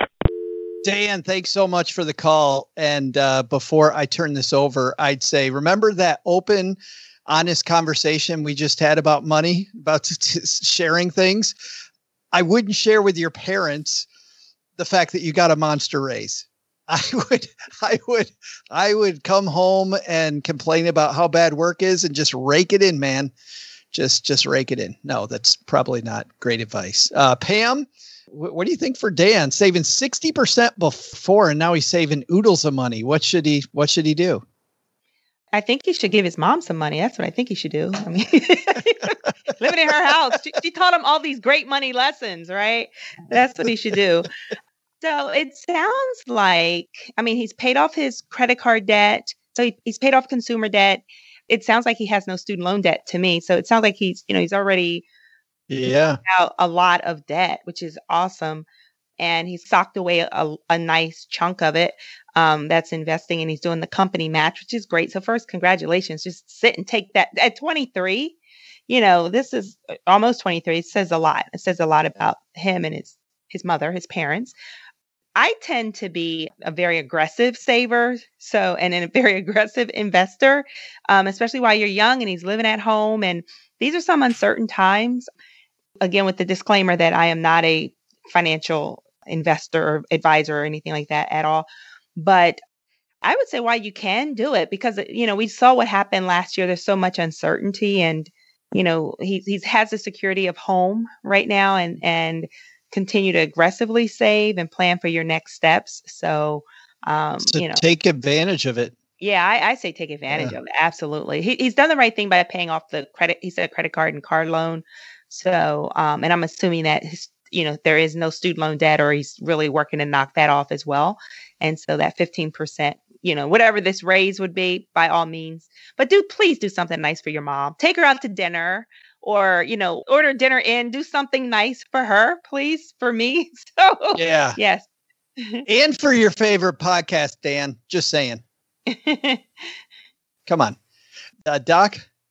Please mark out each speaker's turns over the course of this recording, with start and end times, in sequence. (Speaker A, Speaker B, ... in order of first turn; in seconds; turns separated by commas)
Speaker A: 0.8-11.5, Speaker A: 12.3-14.1, Speaker A: 14.8-23.3, Speaker A: 23.9-34.4, Speaker B: 35.5-44.3, Speaker B: 45.0-55.0, Speaker A: 55.7-56.2, Speaker B: 56.3-58.6, Speaker B: 59.2-68.3, Speaker B: 68.9-74.5, Speaker B: 75.4-85.3, Speaker B: 86.0-92.6, Speaker B: 93.2-107.8, Speaker A: 107.5-108.9, Speaker B: 109.2-134.8, Speaker A: 110.3-110.6, Speaker A: 134.2-134.6, Speaker B: 135.4-135.7, Speaker A: 135.7-138.4, Speaker B: 138.9-139.4, Speaker A: 140.5-140.8, Speaker A: 141.5-142.0